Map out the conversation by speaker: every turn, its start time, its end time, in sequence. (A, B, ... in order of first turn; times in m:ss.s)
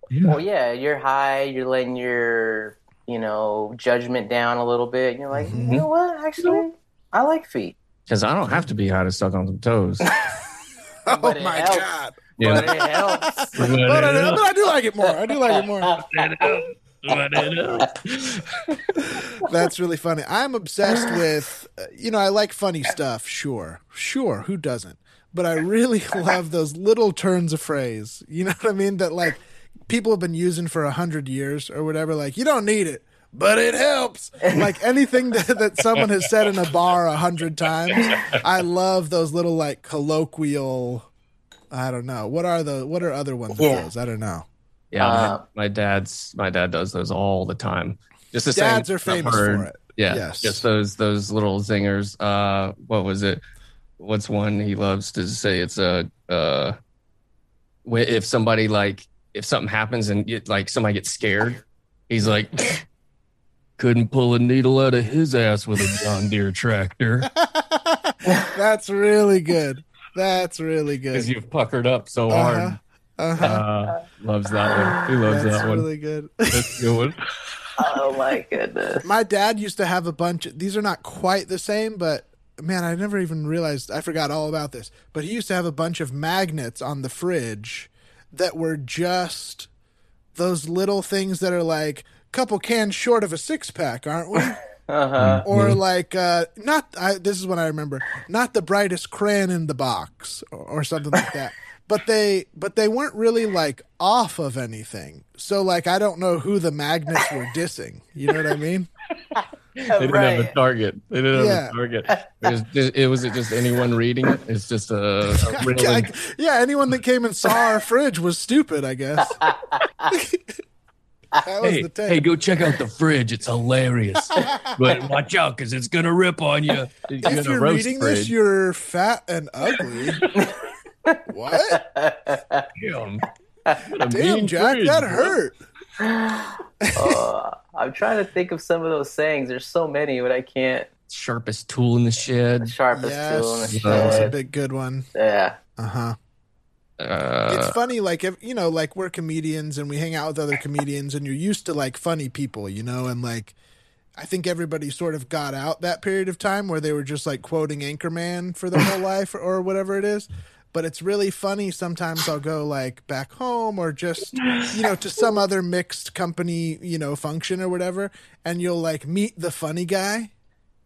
0:00.1-0:00.4 A
0:00.2-0:07.8 B
0:05.3-0:05.8 C
0:05.5-0:05.8 A
0:08.1-0:10.1 A
0:11.0-0:16.0 C
0:11.1-0:13.5 B
0:12.4-0:12.7 A
0:13.6-0:14.4 A
0:16.1-0:19.1 A
0:19.4-0:41.1 C
0:37.9-0:38.2 A
0:41.7-0:44.5 C
0:43.6-0:43.9 B
0:44.9-0:53.4 A
0:45.0-0:45.4 B
0:48.5-0:50.6 C
0:54.0-0:56.8 A
0:57.8-1:02.8 A
1:03.8-1:07.3 A
1:07.3-1:11.3 C
1:11.1-1:12.8 A
1:12.3-1:13.6 C
1:13.4-1:15.9 A
1:15.2-1:16.8 C
1:16.5-1:17.2 A
1:17.8-1:19.0 B
1:19.0-1:29.7 C
1:30.3-1:34.6 C
1:34.9-1:35.4 B
1:35.2-1:35.8 A
1:35.4-1:48.9 C
1:49.3-1:50.5 B
1:49.9-1:56.1 A
1:51.3-1:51.8 C
1:55.5-1:59.4 C
1:59.3-2:00.1 B
2:00.1-2:00.5 C
2:01.4-2:02.2 C
2:01.6-2:08.3 A
2:04.3-2:04.8 C
2:07.2-2:10.2 C
2:11.3-2:11.8 C
2:11.7-2:12.6 B
2:12.8-2:13.2 A
2:13.9-2:15.4 A
2:14.0-2:15.6 C
2:16.0-2:20.9 B
2:16.8-2:17.2 C
2:21.1-2:22.7 A
2:22.6-2:24.3 B
2:22.9-2:25.1 C
2:23.7-2:24.3 A
2:25.1-2:25.6 B
2:25.8-2:26.2 C
2:27.0-2:27.8 A
2:27.5-2:33.5 C
2:34.2-2:50.3 C